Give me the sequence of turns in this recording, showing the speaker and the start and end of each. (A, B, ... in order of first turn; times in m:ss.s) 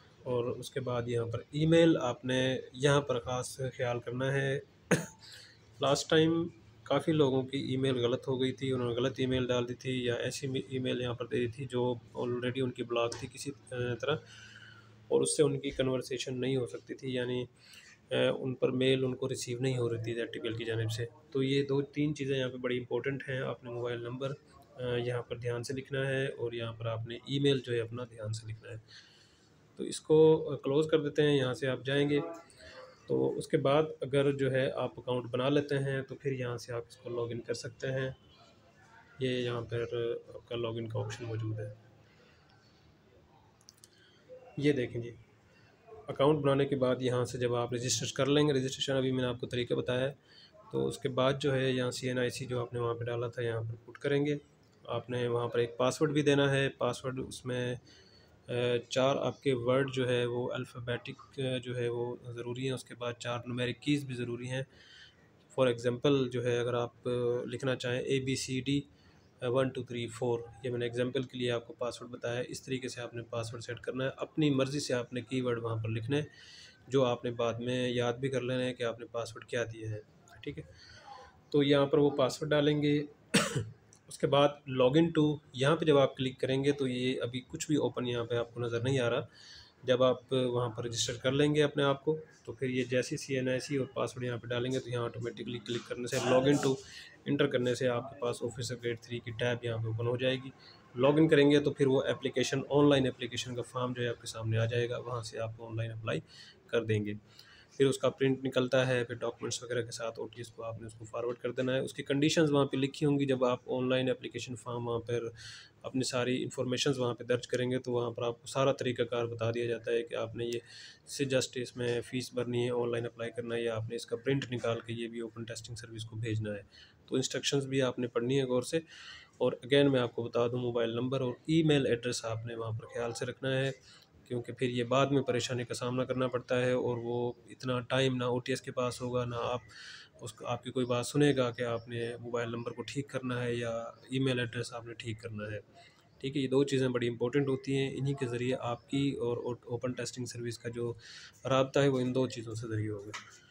0:00.2-0:14.4 A
0:15.1-0:17.5 A
0:18.1-0:28.8 A
0:29.8-0:32.3 A
0:33.1-0:38.2 A
0:39.2-0:41.8 A
0:44.6-0:45.2 A
0:46.0-0:50.2 A
0:50.7-0:57.8 A
0:58.5-1:04.7 A
1:05.5-1:08.9 A
1:09.4-1:16.3 A
1:16.9-1:20.7 A
1:21.5-1:29.3 A
1:29.8-1:47.2 A
1:47.8-2:08.8 A
2:09.4-2:25.6 A
2:26.2-2:33.2 A